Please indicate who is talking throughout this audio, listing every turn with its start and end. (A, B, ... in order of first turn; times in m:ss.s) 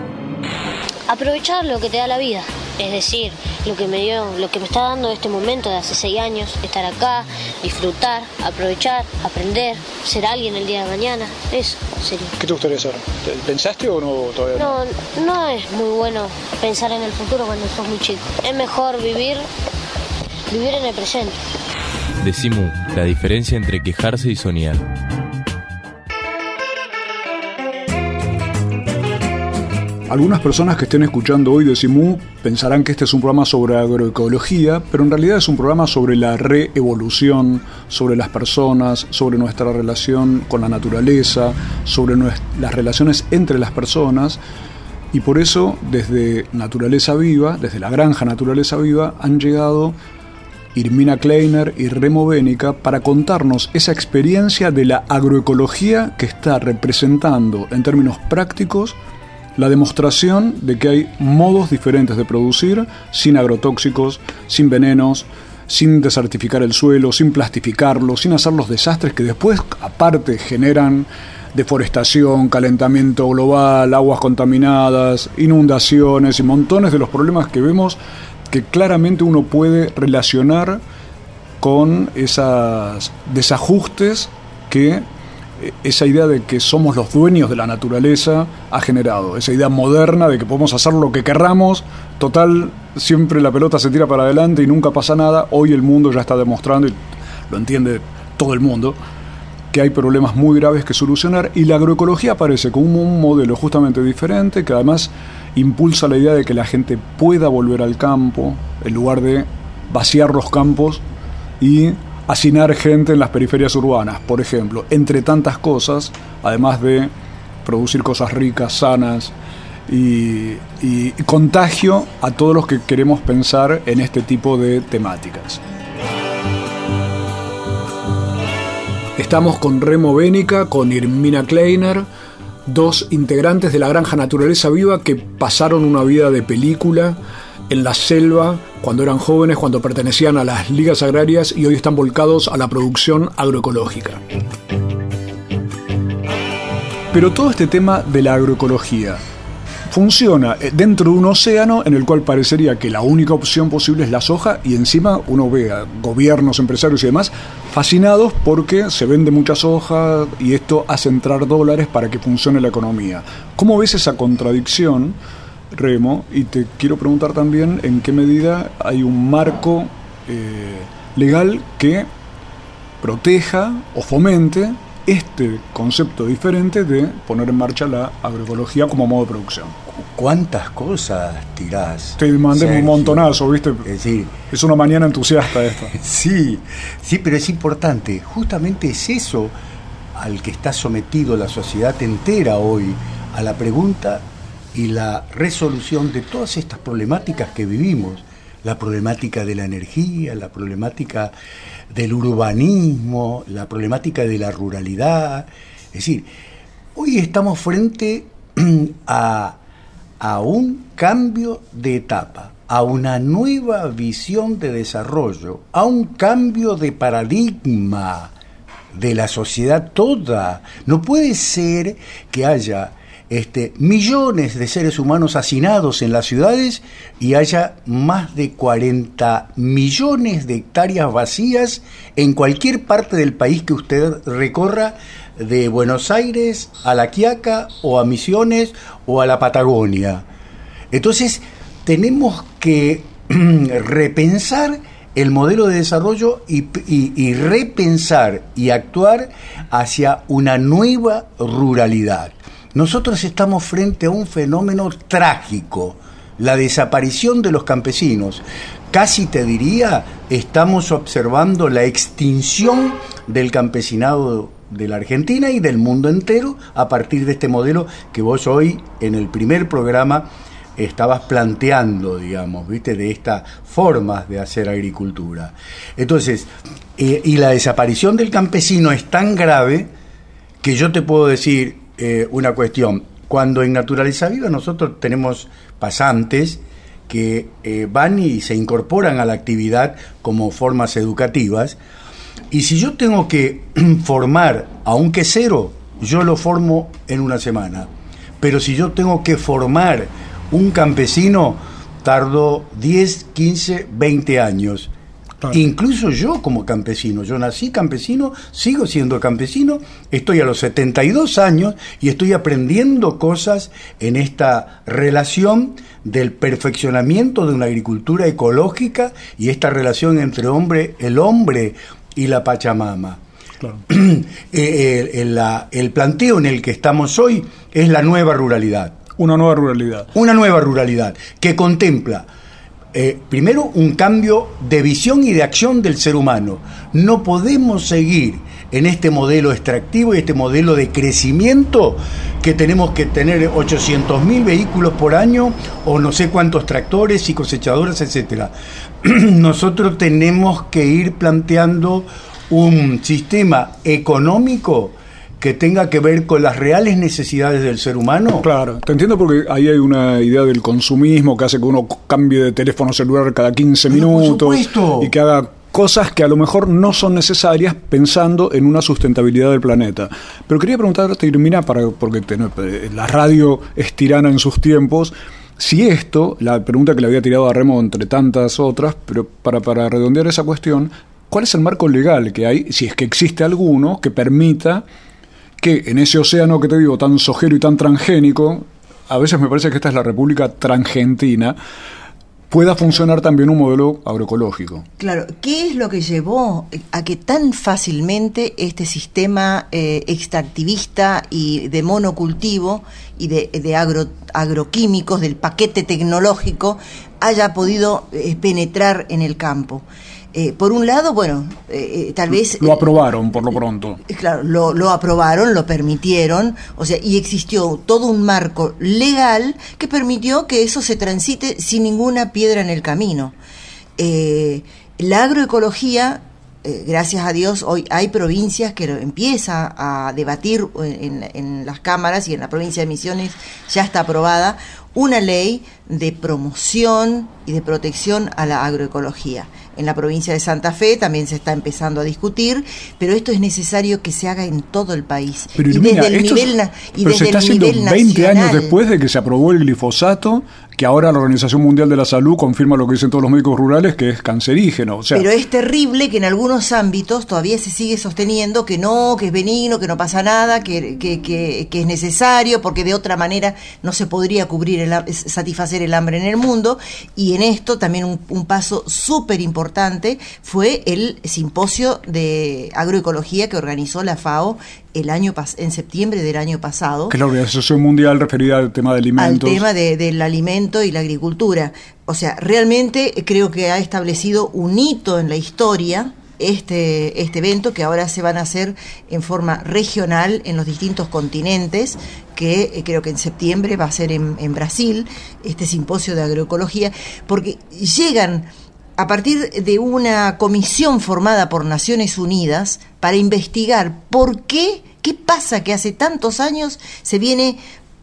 0:01.1-0:12.3 A
0:12.4-0:14.8 B
0:14.6-0:19.4 A
0:20.5-0:21.4 A
0:22.2-0:24.8 C
0:30.1-0:44.4 D
0:45.1-0:50.0 D
0:50.7-0:59.0 D
0:59.6-1:18.0 D
1:18.5-1:20.8 D
1:21.6-1:25.0 D
1:25.6-1:39.0 D
1:39.7-1:51.0 D
1:51.6-1:57.1 D
1:57.6-1:59.3 D
1:59.9-2:05.6 D
2:09.2-2:12.1 D
2:12.7-2:24.2 D
2:27.1-2:29.2 D
2:29.9-2:45.2 D
2:45.7-2:52.1 D
2:53.0-2:59.8 D
2:59.9-3:04.4 E
3:02.2-3:03.8 D
3:04.5-3:05.9 D
3:05.9-3:09.5 E
3:10.1-3:21.3 E
3:21.9-3:26.3 E
3:27.0-3:29.6 E
3:30.2-3:38.3 E
3:38.9-4:00.2 E
4:00.9-4:39.9 E
4:40.6-4:51.8 E
4:52.5-5:04.9 E
5:05.5-5:23.2 E
5:23.9-5:29.0 E
5:29.2-5:30.1 D
5:30.1-5:32.3 E
5:32.9-5:58.4 E
5:58.4-6:24.8 D
6:03.9-6:05.1 E
6:25.6-6:31.6 D
6:32.5-6:34.8 D
6:35.0-7:03.4 F
6:52.3-6:54.0 D
7:04.0-7:28.8 F
7:25.6-7:35.2 D
7:35.1-7:57.2 F
7:57.1-7:59.6 D
7:59.2-8:27.6 F